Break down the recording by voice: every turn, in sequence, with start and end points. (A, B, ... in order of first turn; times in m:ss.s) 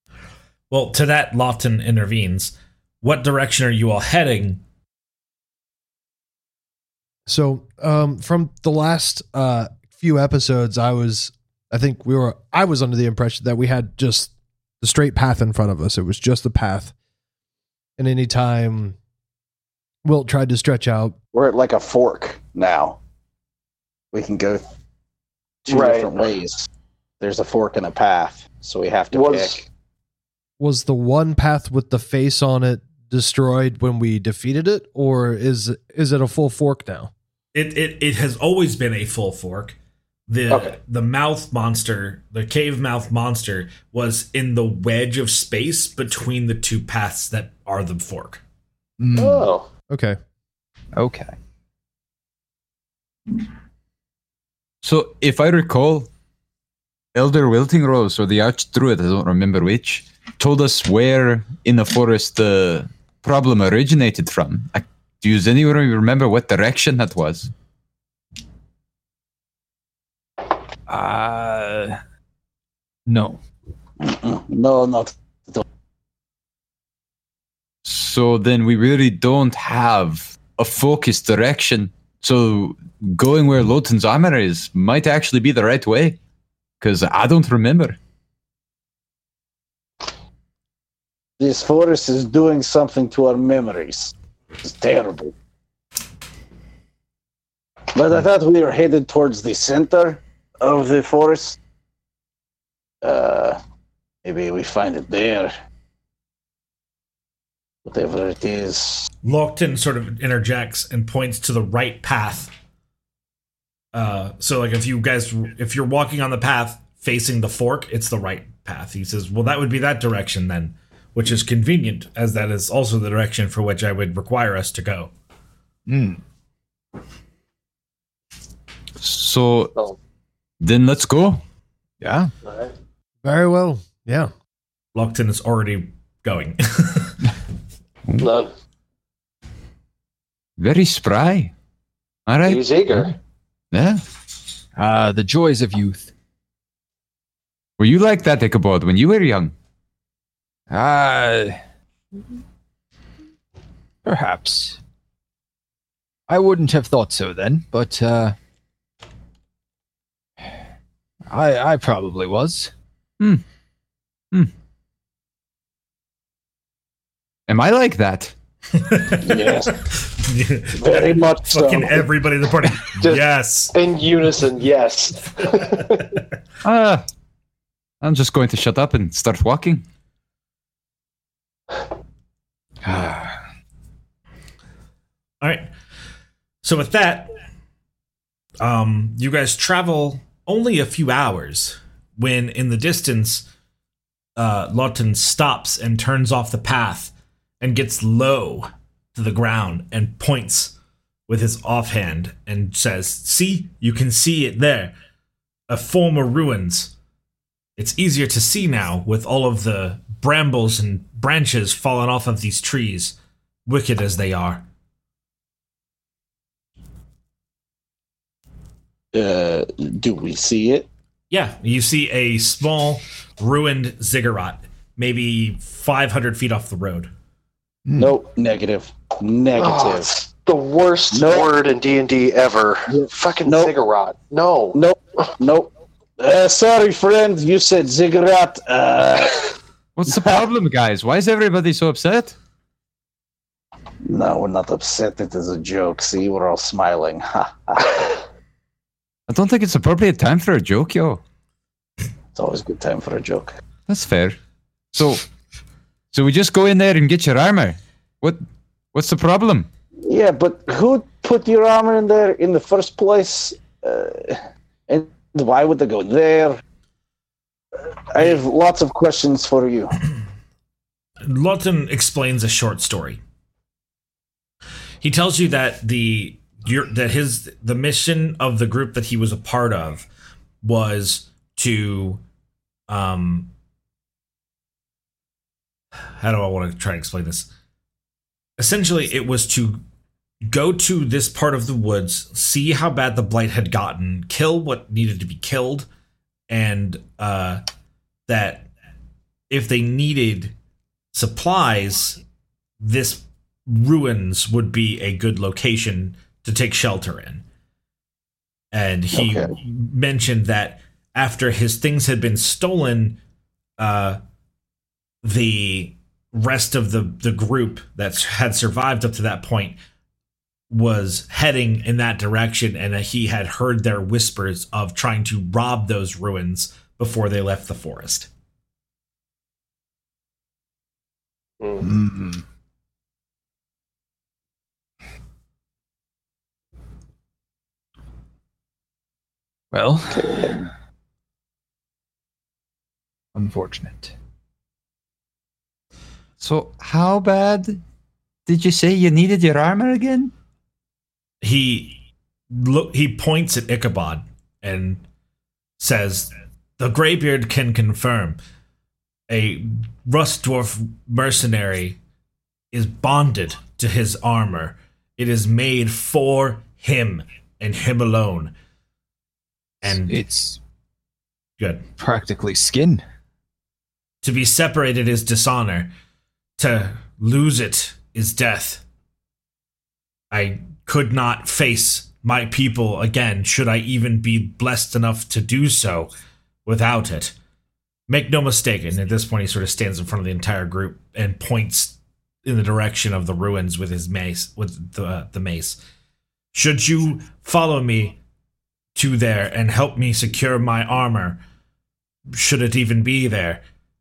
0:00.7-0:04.6 A
0:07.3-0:16.9 B
0:18.0-0:19.0 B
0:20.0-0:21.2 B
0:21.3-0:23.0 C
0:24.1-0:24.6 C
0:25.7-0:26.7 C
0:25.7-0:26.3 D
0:27.2-0:29.6 C
0:29.1-0:29.6 D
0:30.6-0:37.1 B
0:37.5-0:39.8 A
0:40.3-0:48.4 A
0:40.5-0:40.8 D
0:49.0-0:49.5 E
0:49.1-0:49.7 D
0:49.9-0:50.2 B
0:51.0-0:51.4 E
0:54.8-0:56.1 F
0:57.1-1:07.5 F
1:10.9-1:12.0 E
1:13.1-1:13.4 E
1:14.0-1:15.6 C
1:17.8-1:26.2 F
1:26.8-1:28.0 F
1:31.4-1:35.3 C
1:38.0-1:41.6 C
1:43.0-1:43.6 C
1:44.2-1:45.5 C
1:47.8-1:49.1 C
1:49.2-1:52.5 A
1:53.9-2:05.1 A
2:05.9-2:06.2 E
2:09.0-2:09.7 F
2:10.6-2:11.4 F
2:12.0-2:12.3 E
2:12.4-2:12.7 D
2:13.2-2:14.3 B
2:15.0-2:17.2 A
2:18.2-2:18.5 D
2:20.6-2:21.5 F
2:22.3-2:23.1 F
2:22.4-2:23.1 D
2:23.7-2:24.0 F
2:24.8-2:26.1 E
2:27.8-2:29.5 F
2:30.7-2:31.6 E
2:34.0-2:34.8 E
2:36.3-2:38.4 E
2:41.3-2:42.7 E
2:43.2-2:43.4 F
2:47.5-2:48.3 F
2:48.7-2:53.8 A
2:49.2-2:49.9 C
2:50.8-2:52.1 C
2:53.0-2:56.1 D
2:56.6-2:57.0 F
2:58.0-2:59.8 F
3:02.8-3:03.4 E
3:05.4-3:05.7 A
3:06.6-3:07.3 A
3:08.6-3:13.4 A
3:14.4-3:20.7 A
3:21.3-3:25.0 A
3:25.7-3:26.9 A
3:27.8-3:34.6 A
3:39.1-3:40.9 C
3:41.3-3:47.1 A
3:47.9-3:48.1 E
3:48.0-3:50.2 C
3:49.6-3:54.8 D
3:51.1-3:51.5 C
3:52.9-3:53.7 C
3:54.7-3:59.5 C
4:00.0-4:02.4 F
4:04.0-4:08.2 C
4:09.3-4:11.2 F
4:12.4-4:13.5 C
4:13.9-4:14.4 F
4:14.9-4:15.2 F
4:16.1-4:18.4 F
4:18.9-4:19.7 F
4:20.1-4:26.6 C
4:28.1-4:30.0 C
4:31.2-4:33.2 A
4:35.0-4:40.1 A
4:40.6-4:42.2 A
4:42.9-4:43.5 A
4:46.2-4:47.5 A
4:48.6-4:49.8 A
4:50.4-4:55.9 A
4:56.5-4:57.6 A
4:58.3-4:58.7 A
4:59.5-5:00.5 A
5:01.1-5:02.2 A
5:02.8-5:07.4 A
5:08.7-5:13.2 A
5:09.1-5:09.5 C
5:13.8-5:14.2 A
5:15.2-5:19.8 A
5:20.7-5:28.3 A
5:31.6-5:31.9 D
5:31.8-5:32.4 E
5:39.7-5:40.7 E
5:43.4-5:44.1 E
5:46.4-5:47.8 F
5:48.5-5:50.3 F
5:51.4-5:52.0 A
5:52.5-5:55.0 A
5:55.8-5:58.4 A
5:59.3-6:02.0 A
6:02.7-6:08.5 A
6:09.8-6:10.2 A
6:09.8-6:10.6 E
6:11.6-6:11.8 A
6:12.0-6:13.0 E
6:14.2-6:15.9 A
6:16.6-6:18.8 A
6:20.3-6:26.1 A
6:26.7-6:27.4 A
6:28.1-6:35.8 A
6:36.5-6:38.2 A
6:39.0-6:41.4 A
6:42.3-6:43.6 A